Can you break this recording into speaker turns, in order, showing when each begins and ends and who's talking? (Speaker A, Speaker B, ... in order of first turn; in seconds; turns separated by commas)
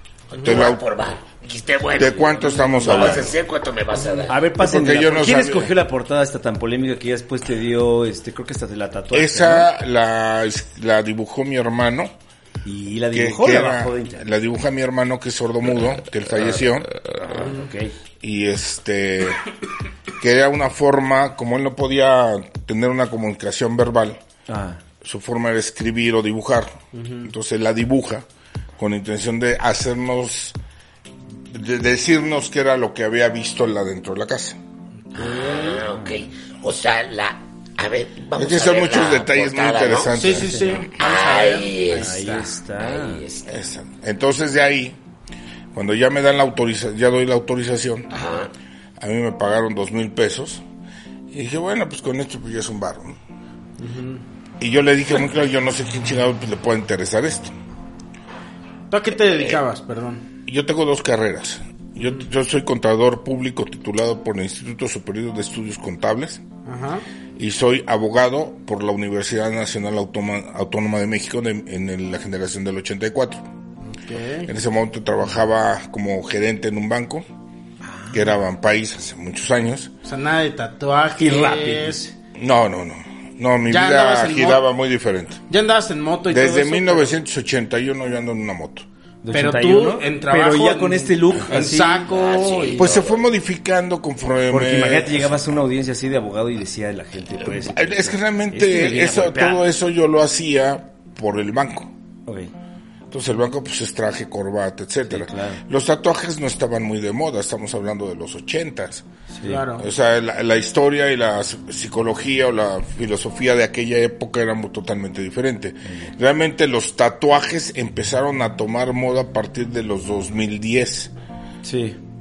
Speaker A: 0.3-4.4, Speaker B: 0.4-0.8, Speaker B: 1.9-3.3, Speaker C: 2.7-3.3, Speaker C: 4.3-9.7, Speaker B: 4.5-5.7, Speaker B: 9.1-12.1, Speaker C: 12.6-14.3, Speaker B: 13.1-16.9, Speaker C: 17.3-17.9, Speaker D: 17.4-17.7, Speaker B: 18.2-19.4, Speaker B: 20.2-24.2, Speaker C: 24.5-24.8, Speaker B: 25.0-28.2, Speaker D: 26.9-27.3, Speaker B: 28.8-30.6, Speaker B: 31.5-34.6, Speaker A: 35.1-40.2, Speaker D: 35.2-35.8, Speaker C: 35.5-36.2, Speaker B: 38.3-40.8, Speaker D: 40.1-42.5, Speaker C: 40.5-40.8, Speaker A: 40.9-43.5, Speaker C: 41.9-43.2, Speaker B: 43.5-45.0, Speaker B: 45.7-48.1, Speaker A: 48.1-48.5, Speaker B: 49.0-50.6, Speaker B: 51.3-53.2, Speaker D: 53.8-54.2, Speaker B: 54.6-57.5, Speaker D: 58.9-60.2, Speaker B: 59.2-59.6, Speaker B: 60.5-66.4, Speaker D: 66.7-67.0, Speaker B: 67.4-73.4, Speaker D: 73.9-74.5, Speaker B: 74.5-77.2, Speaker C: 77.8-78.3, Speaker B: 78.1-79.9, Speaker D: 80.0-82.0, Speaker C: 81.2-82.1, Speaker B: 82.3-85.4, Speaker D: 83.7-84.6, Speaker D: 85.5-87.2, Speaker B: 86.3-88.8, Speaker C: 89.2-92.1, Speaker D: 89.3-92.9, Speaker A: 92.1-93.2, Speaker B: 92.8-95.4, Speaker C: 94.5-99.6, Speaker B: 97.4-101.9, Speaker C: 102.3-102.5, Speaker B: 103.1-109.0, Speaker C: 105.1-105.6, Speaker C: 109.3-109.7, Speaker D: 109.4-109.8, Speaker B: 109.8-121.1, Speaker C: 115.9-116.1, Speaker C: 121.6-122.0